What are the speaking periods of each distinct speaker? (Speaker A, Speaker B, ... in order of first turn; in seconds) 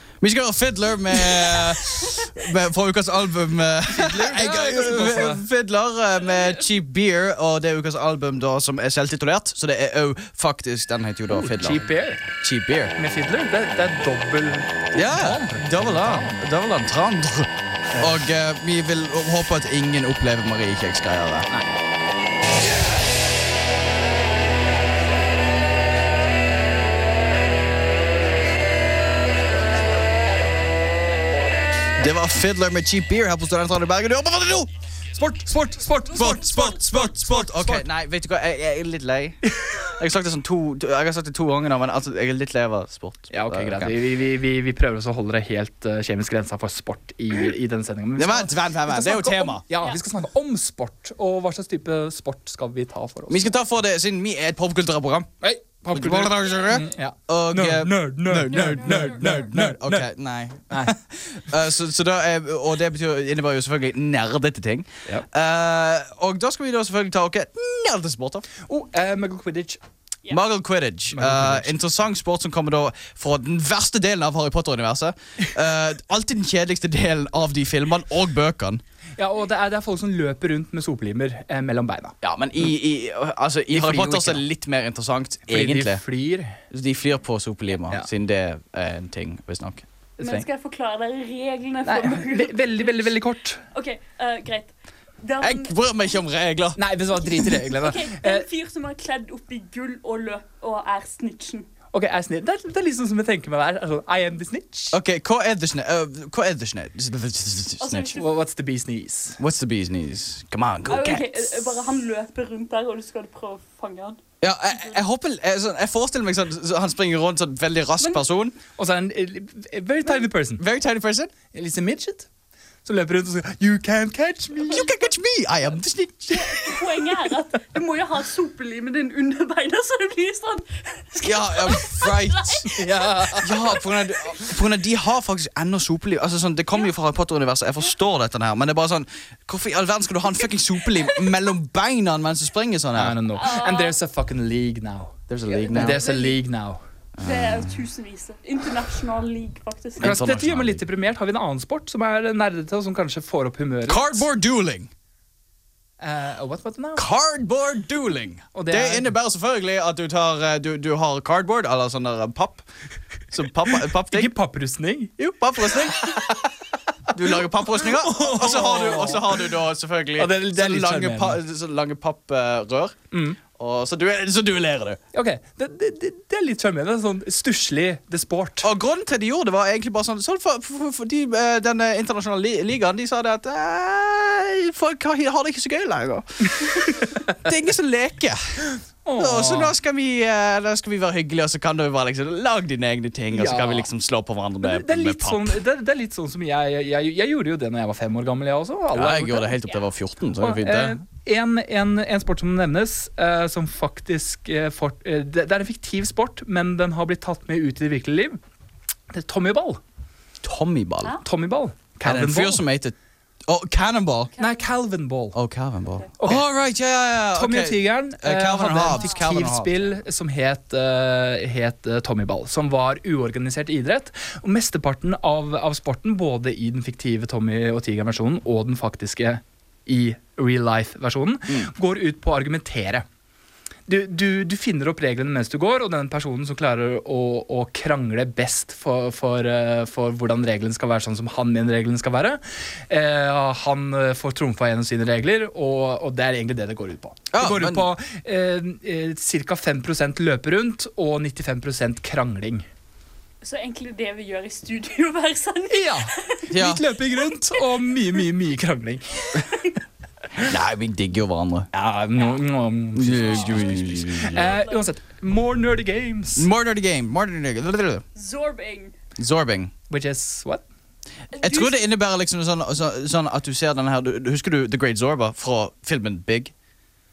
Speaker A: 0.2-12.9, 14.9-21.5, 32.0-34.7, 36.1-44.0, 48.2-49.6, 53.3-55.3, 55.9-68.5, 70.3-78.8, 82.2-86.0, 86.7-90.5, 95.4-96.8, 104.9-108.2, 109.4-111.5, 114.4-118.6, 120.6-121.3, 124.7-126.8, 131.2-132.7, 133.4-143.2, 145.3-146.0, 147.2-147.8, 150.0-150.8, 153.9-154.9, 157.0-162.7, 163.3-164.3, 165.2-166.5, 167.1-175.0, 178.6-188.7, 189.2-195.6, 198.9-201.0, 210.4-211.2, 212.0-212.9, 213.5-214.3, 215.3-219.9, 247.3-247.9, 256.5-256.8, 260.4-261.7, 262.9-264.5, 266.4-268.0, 269.2-269.7, 271.4-276.5
Speaker B: 3.9-5.4, 11.3-12.3, 13.0-16.4, 17.9-18.2, 21.5-21.8, 35.2-37.9, 39.5-39.9, 43.3-53.5, 55.4-60.1, 60.7-61.0, 68.7-69.8, 71.1-71.7, 79.2-82.2, 83.7-84.4, 85.5-86.6, 91.8-93.6, 96.8-98.5, 101.9-105.0, 108.2-109.4, 118.8-120.6, 121.5-122.3, 122.8-124.9, 132.7-133.6, 142.9-145.2, 145.7-146.8, 150.0-154.3, 156.0-157.1, 158.5-159.1, 164.1-165.1, 165.8-166.4, 167.7-169.5, 170.2-171.4, 173.1-173.4, 175.1-178.7, 189.1-189.7, 193.3-193.9, 194.6-199.5, 200.4-208.4, 209.1-209.8, 211.2-212.6, 214.4-215.4, 216.2-216.4, 217.3-233.1, 233.9-252.7, 255.7-259.6, 261.7-266.5, 269.9-270.6
Speaker C: 36.3-36.7, 58.5-59.4, 90.2-93.1, 93.7-95.7, 97.7-101.7, 107.8-108.3, 110.9-114.2, 126.3-132.8, 143.3-144.0, 145.5-146.4, 147.2-150.2, 214.4-214.6, 253.4-256.5, 263.2-264.9, 268.1-268.9, 271.3-271.9